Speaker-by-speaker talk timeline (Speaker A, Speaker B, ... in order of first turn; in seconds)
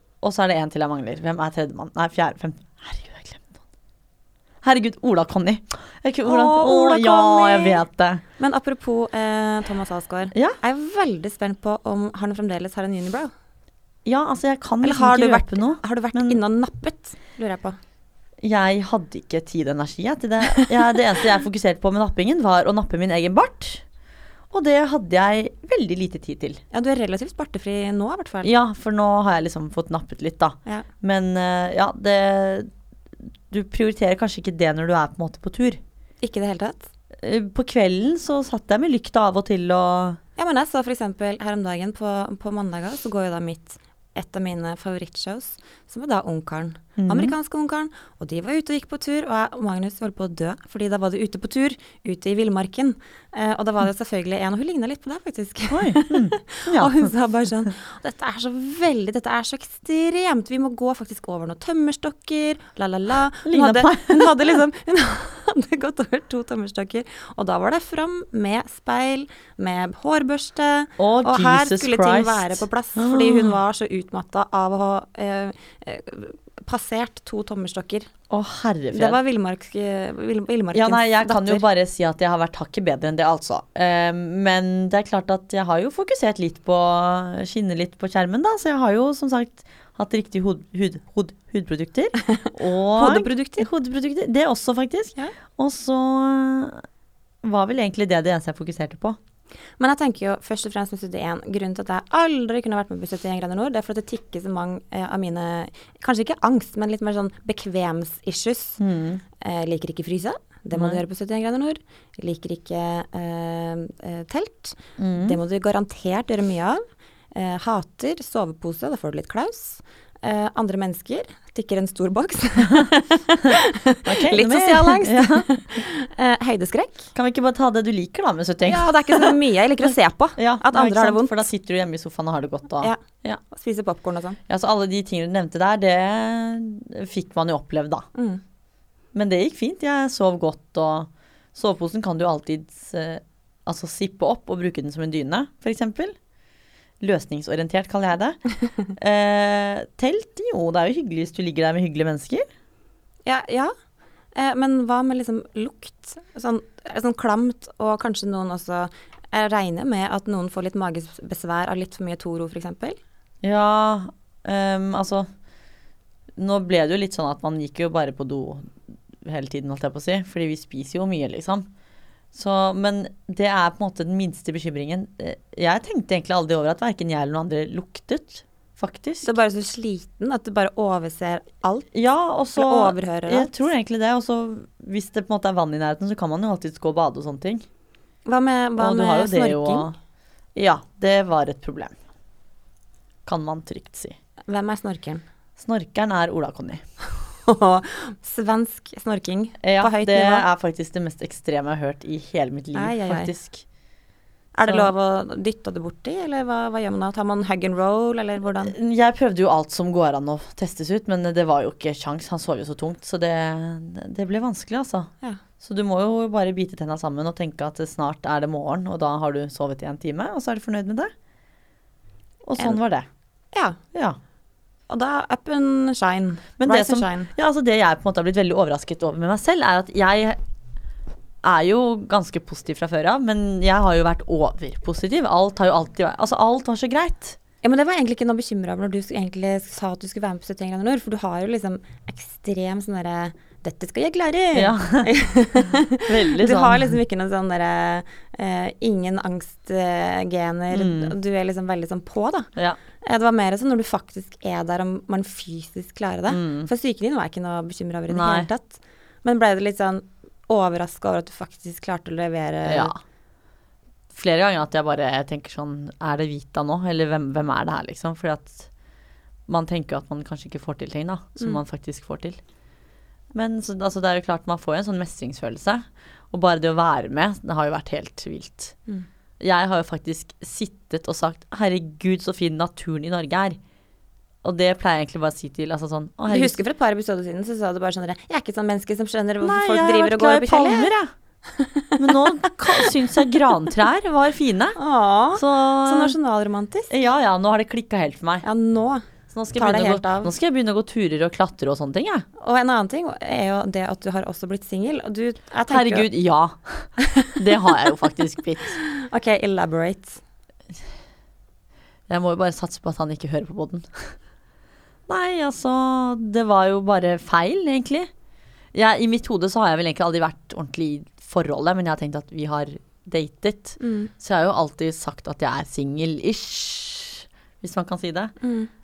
Speaker A: 0.2-3.6, 4.6-8.2, 10.3-10.6, 14.1-16.4, 18.4-23.8, 24.5-26.6, 28.4-32.7, 33.5-35.8, 37.2-40.2, 47.0-47.3, 55.7-57.1, 63.5-64.6, 71.0-73.5, 78.3-79.2, 80.7-96.8, 97.4-99.2, 108.8-109.2, 110.7-111.0, 115.0-115.4, 124.0-125.5, 127.1-133.4, 134.5-138.1, 139.1-146.2, 147.0-152.4, 163.4-165.3, 166.4-171.7, 172.3-179.3, 181.9-187.7, 188.8-189.9, 190.6-192.0, 193.3-194.2, 195.6-196.8, 199.6-203.6, 204.7-204.9, 208.6-221.1, 222.4-223.1, 226.6-230.4, 231.4-237.4, 244.5-245.1, 246.0-246.9, 250.7-251.2, 256.3-256.7, 258.1-258.5, 262.6-263.0, 264.1-268.7, 269.5-272.4, 273.3-278.8, 279.4-283.6, 284.4-286.6, 289.4-291.1, 292.0-294.8, 295.4-296.1, 296.9-298.4, 299.3-302.3, 305.7-308.8, 312.1-314.2, 315.1-318.1, 318.7-328.3
Speaker B: 6.2-7.8, 8.4-13.3, 14.8-17.8, 26.7-28.5, 36.2-36.9, 40.4-78.1, 78.9-81.7, 93.0-93.7, 99.8-108.8, 109.4-127.1, 128.7-131.4, 132.8-134.4, 138.2-138.4, 153.3-153.7, 154.3-163.0, 179.2-181.9, 182.6-183.7, 188.3-189.9, 194.5-195.2, 197.3-200.4, 202.8-203.3, 204.6-208.7, 223.5-223.8, 224.9-227.3, 237.6-252.5, 253.0-262.9, 286.3-290.9, 291.5-292.9, 294.8-296.9, 298.4-300.3, 302.4-306.1, 307.0-307.4, 308.8-310.2, 323.8-324.1, 328.4-328.7